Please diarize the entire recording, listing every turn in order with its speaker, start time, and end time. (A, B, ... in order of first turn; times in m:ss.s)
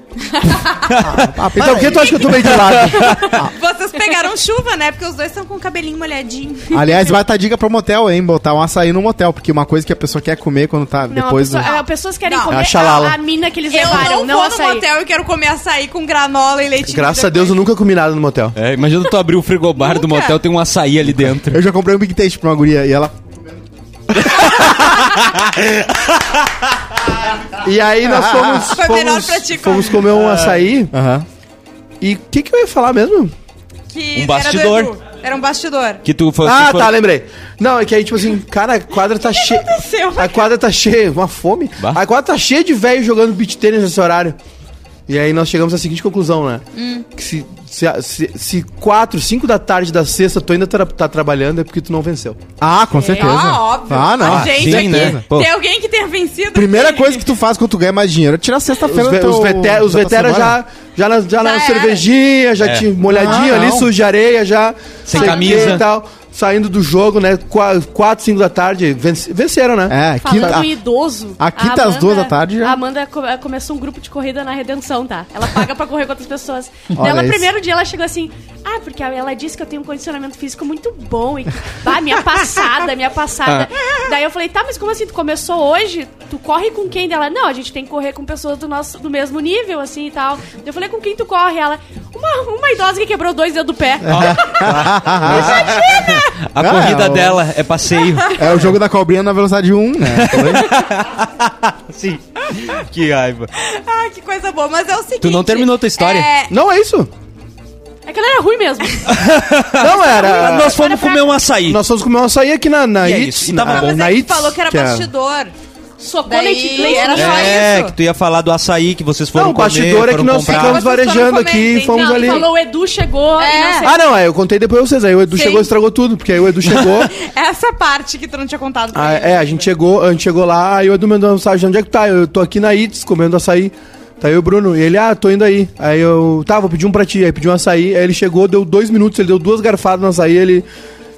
0:00.2-0:00.9 A
0:00.9-0:01.4 B
0:01.0-0:02.4 C
0:01.4-0:03.2 D
0:01.8-0:07.1 A
0:02.7-0:03.4 B
0:06.7-0:11.7 C
0:11.1-0:14.8 E
0:11.6-0:13.0 A
0:12.5-0:13.2 D
0:13.7-0:17.6 A
0:16.9-0:18.6 D
0:18.6-0:21.6 B
0:19.8-0:20.4 A
0:21.5-0:23.6 C
0:24.2-0:26.5 B
0:24.4-0:25.0 C
0:27.6-0:30.9 D
0:28.1-0:28.7 C
0:28.7-0:30.1 A
0:30.9-0:31.3 C
0:32.0-0:33.3 D
0:33.9-0:36.0 A
0:34.2-0:34.9 B
0:36.0-0:36.9 B
0:36.4-0:44.4 D
0:39.1-0:40.5 A
0:45.1-0:52.4 D
0:46.7-0:47.1 A
0:52.6-0:55.2 C
0:53.0-0:53.5 E
0:53.1-0:57.3 A
0:54.2-0:55.5 B
0:56.5-1:00.6 C
0:58.8-1:10.6 D
1:01.4-1:02.1 A
1:02.6-1:02.9 B
1:03.1-1:03.9 C
1:05.1-1:05.8 B
1:05.2-1:05.7 A
1:05.2-1:05.8 E
1:09.9-1:10.8 C
1:10.2-1:34.8 E
1:11.4-1:12.8 C
1:17.0-1:17.5 C
1:23.5-1:23.8 B
1:34.1-1:35.9 C
1:34.1-1:38.6 B
1:35.7-1:36.1 A
1:36.6-1:37.4 C
1:38.0-1:38.5 A
1:38.4-1:40.7 C
1:40.1-1:43.5 B
1:43.6-1:46.5 A
1:45.2-1:46.3 B
1:46.5-1:47.1 D
1:48.1-1:49.1 E
1:49.1-1:51.8 B
1:49.8-1:50.8 D
1:49.8-1:51.3 E
1:51.7-1:55.1 D
1:53.0-1:54.2 B
1:53.7-1:55.5 A
1:56.0-1:57.7 E
1:56.3-1:58.0 A
1:57.1-2:00.9 B
1:59.4-2:02.5 D
2:00.4-2:02.5 A
2:01.9-2:04.0 E
2:03.4-2:03.9 A
2:03.8-2:07.1 D
2:05.3-2:05.7 A
2:06.6-2:09.7 A
2:08.9-2:20.6 D